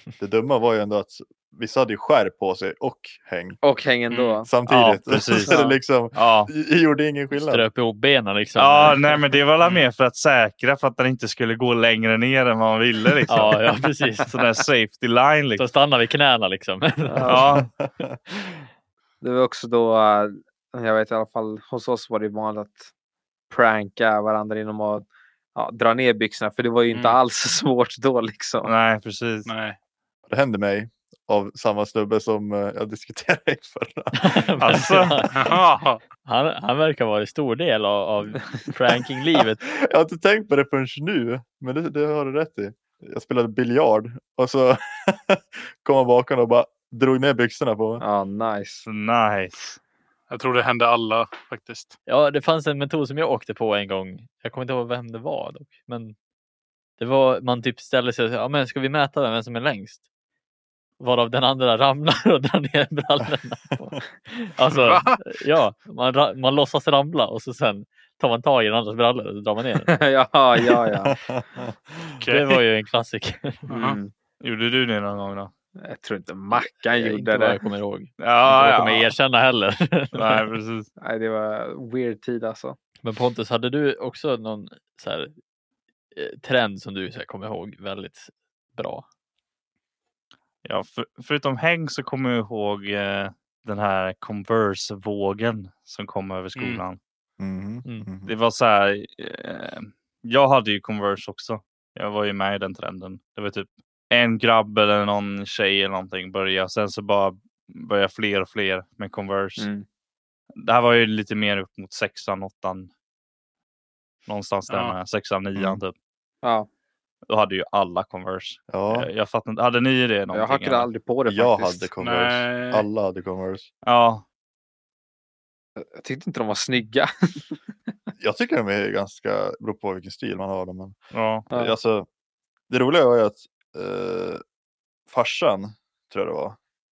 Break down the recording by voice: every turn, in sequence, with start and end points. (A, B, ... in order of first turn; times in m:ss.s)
0:00.2-0:03.6 A
0:03.6-0:04.5 B
0:04.4-0:07.7 A
0:04.7-0:05.6 C
0:05.5-0:05.7 B
0:06.2-0:06.5 C
0:07.3-0:09.2 D
0:08.6-0:13.7 C
0:13.3-0:14.4 D
0:14.3-0:15.7 C
0:15.6-0:17.5 D
0:17.1-0:17.5 B
0:17.3-0:17.7 C
0:17.3-0:18.2 A
0:19.2-0:22.9 B
0:23.5-0:28.7 B
0:26.9-0:27.2 E
0:28.6-0:29.5 C
0:29.5-0:29.8 E
0:30.3-0:34.5 A
0:34.2-0:35.6 D
0:34.6-0:35.2 C
0:35.3-0:36.0 E
0:36.2-0:39.6 D
0:39.6-0:48.0 A
0:48.0-0:48.9 B
0:48.9-0:49.8 C
0:50.3-0:51.9 E
0:52.1-0:56.2 D
0:57.0-1:00.0 D
1:01.0-1:09.9 D
1:04.7-1:05.2 E
1:09.9-1:11.1 B
1:11.1-1:12.2 A
1:12.2-1:12.6 E
1:12.3-1:13.7 D
1:13.7-1:14.0 E
1:13.7-1:14.1 B
1:14.4-1:15.5 C
1:15.8-1:17.6 B
1:16.5-1:20.5 D
1:18.2-1:19.1 C
1:20.1-1:20.9 C
1:21.0-1:22.8 B
1:23.0-1:25.3 D
1:26.2-1:29.1 D
1:30.6-1:37.0 C
1:36.6-1:36.8 E
1:37.4-1:38.3 A
1:38.3-1:49.7 C
1:49.6-1:49.9 B
1:50.6-1:52.9 C
1:54.3-1:55.9 C
1:54.7-1:55.0 E
1:55.6-1:55.8 A
1:57.3-2:00.9 C
1:58.7-1:59.1 A
2:00.3-2:01.9 B
2:01.3-2:03.7 A
2:02.0-2:02.8 E
2:03.8-2:04.2 C
2:05.8-2:07.9 B
2:08.2-2:11.0 A
2:11.1-2:11.5 C
2:11.5-2:12.1 A
2:12.7-2:14.4 A
2:15.1-2:16.6 A